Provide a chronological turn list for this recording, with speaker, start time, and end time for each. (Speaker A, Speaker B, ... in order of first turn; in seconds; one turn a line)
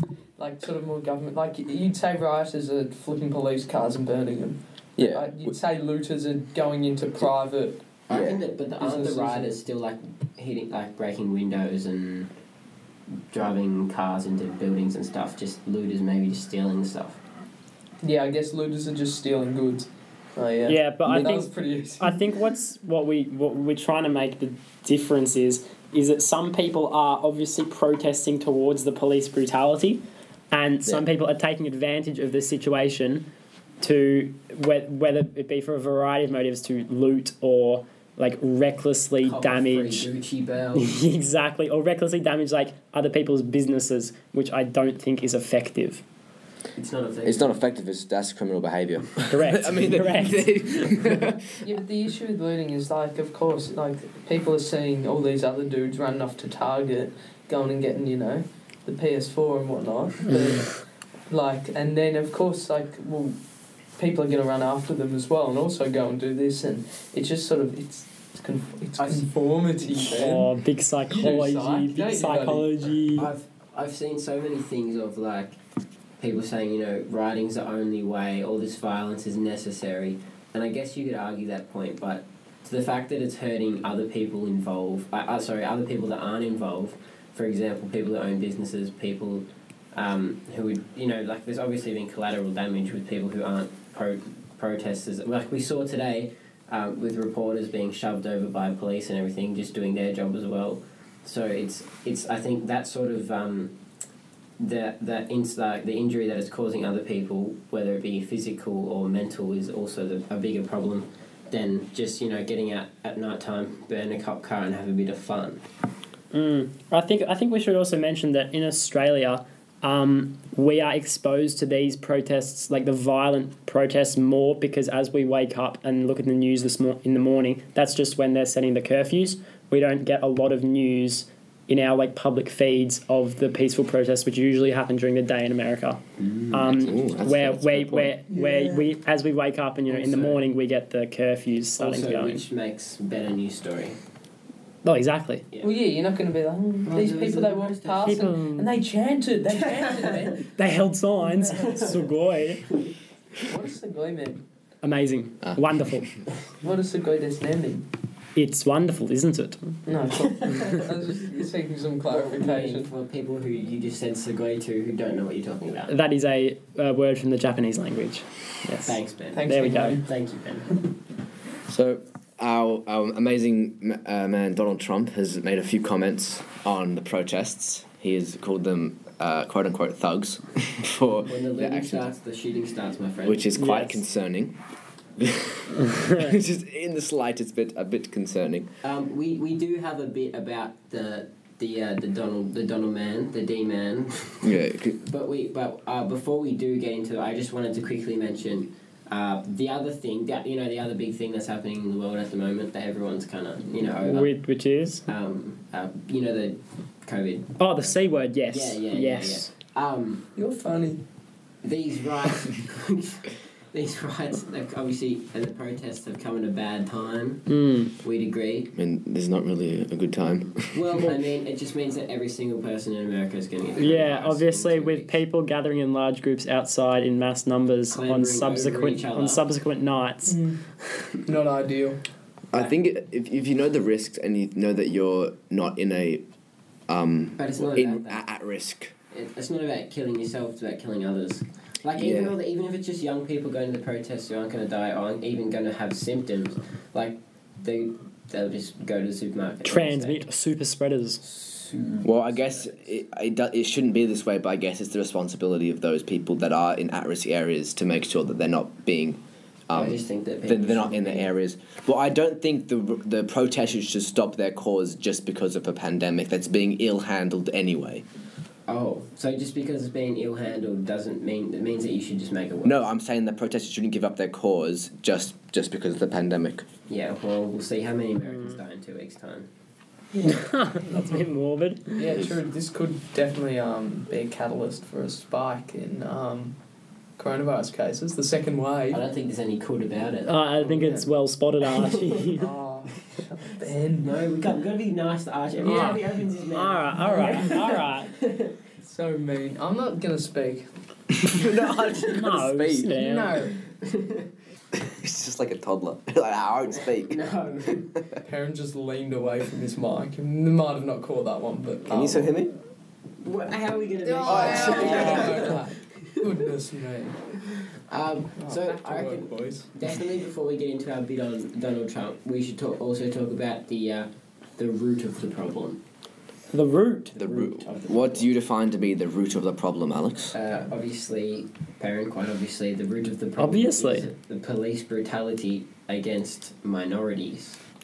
Speaker A: 0.4-7.8
Speaker B: 5.0-5.5
Speaker C: 8.1-12.3
Speaker A: 8.8-9.6
Speaker C: 13.3-17.2
Speaker A: 18.0-22.2
Speaker D: 20.6-33.3
Speaker B: 21.1-21.4
Speaker D: 33.8-40.1
Speaker C: 39.2-41.0
Speaker D: 40.8-46.0
Speaker C: 46.8-47.5
Speaker B: 47.2-51.6
Speaker D: 49.3-50.5
Speaker A: 51.6-63.4
Speaker A: 64.0-70.5
Speaker C: 69.0-69.3
Speaker D: 70.0-73.3
Speaker A: 71.1-72.9
Speaker C: 73.2-75.6
Speaker C: 76.2-103.8
Speaker C: 104.6-115.7
Speaker D: 116.3-142.4
Speaker C: 136.2-137.0
Speaker B: 136.8-138.2
Speaker A: 138.3-138.8
Speaker C: 139.9-140.4
Speaker C: 141.8-144.0
Speaker D: 144.8-145.4
Speaker A: 145.6-150.5
Speaker C: 146.8-148.3
Speaker D: 148.0-148.7
Speaker C: 149.5-150.4
Speaker D: 150.4-152.8
Speaker A: 151.3-151.8
Speaker C: 151.5-151.9
Speaker A: 153.4-154.4
Speaker D: 154.8-156.1
Speaker A: 156.6-157.9
Speaker D: 158.3-159.8
Speaker A: 159.8-162.9
Speaker C: 160.3-160.8
Speaker C: 162.1-165.9
Speaker D: 165.9-170.0
Speaker C: 168.8-170.9
Speaker A: 169.3-170.1
Speaker B: 171.7-182.1
Speaker C: 181.3-183.5
Speaker B: 183.2-184.6
Speaker D: 183.6-184.0
Speaker B: 185.2-188.7
Speaker C: 188.8-204.3
Speaker B: 194.4-195.0
Speaker D: 204.0-205.1
Speaker C: 205.1-207.9
Speaker D: 207.6-209.5
Speaker C: 208.5-210.3
Speaker A: 210.3-211.0
Speaker C: 211.6-217.5
Speaker D: 217.5-217.9
Speaker C: 218.0-218.7
Speaker B: 218.7-221.1
Speaker C: 220.7-225.2
Speaker D: 223.8-230.4
Speaker C: 227.9-229.4
Speaker A: 230.2-230.6
Speaker A: 231.2-232.0
Speaker B: 232.5-236.2
Speaker B: 236.9-238.9
Speaker C: 237.4-238.2
Speaker C: 239.1-250.3
Speaker B: 241.9-242.3
Speaker D: 249.6-251.2
Speaker C: 251.2-252.8
Speaker B: 252.0-268.0
Speaker C: 259.7-261.3
Speaker C: 268.7-272.8
Speaker B: 272.6-276.7
Speaker C: 276.9-279.5
Speaker D: 278.3-278.6
Speaker D: 280.1-282.2
Speaker A: 282.0-286.6
Speaker A: 287.2-289.0
Speaker C: 288.9-290.3
Speaker D: 290.3-292.5
Speaker A: 290.6-291.1
Speaker C: 291.8-292.2
Speaker A: 292.3-294.2
Speaker C: 294.0-298.6
Speaker D: 295.6-298.1
Speaker A: 295.6-296.0
Speaker A: 297.2-297.6
Speaker A: 298.8-300.7
Speaker B: 301.2-302.9
Speaker D: 302.1-303.5
Speaker A: 302.9-303.6
Speaker C: 303.8-304.3
Speaker B: 304.7-307.2
Speaker C: 306.7-307.9
Speaker A: 308.2-312.3
Speaker B: 311.9-312.5
Speaker C: 313.2-316.2
Speaker A: 314.0-317.2
Speaker B: 314.2-315.4
Speaker C: 317.9-325.8
Speaker A: 318.4-319.7
Speaker D: 326.5-327.3
Speaker C: 327.1-328.3
Speaker B: 327.2-330.3
Speaker C: 330.3-337.6
Speaker D: 333.4-334.1